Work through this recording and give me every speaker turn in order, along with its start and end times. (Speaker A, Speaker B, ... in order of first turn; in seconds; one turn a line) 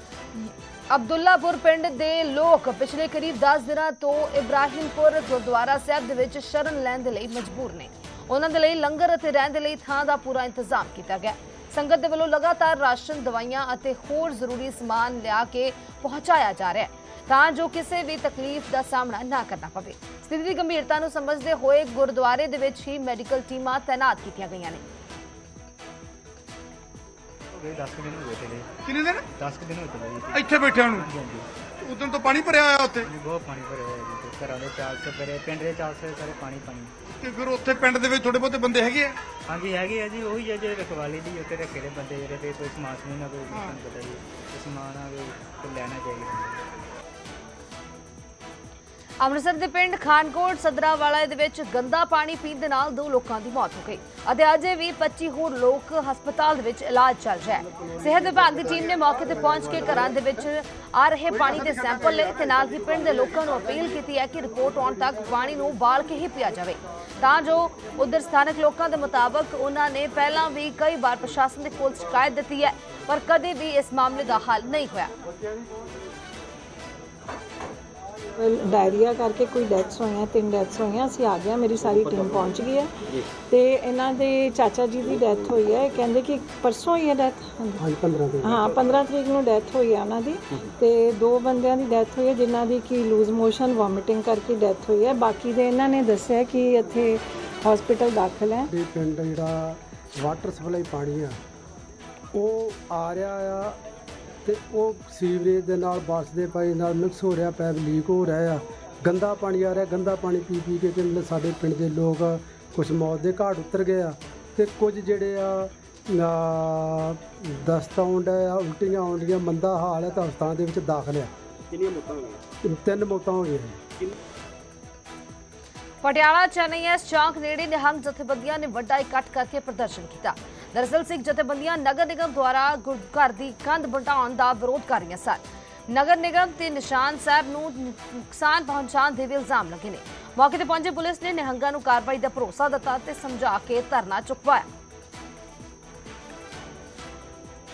Speaker A: 0.3-24.8
Speaker B: 27.5-28.7
Speaker C: 28.9-29.2
Speaker B: 29.3-31.5
Speaker C: 30.3-31.0
Speaker C: 31.9-33.0
Speaker B: 33.0-36.9
Speaker C: 37.2-39.1
Speaker B: 39.5-46.6
Speaker A: 49.2-75.1
Speaker D: 78.4-82.9
Speaker D: 83.5-87.8
Speaker E: 87.8-89.0
Speaker D: 88.4-98.7
Speaker E: 98.7-101.4
Speaker E: 102.3-103.8
Speaker E: 104.4-121.3
Speaker E: 122.7-123.8
Speaker A: 126.0-144.7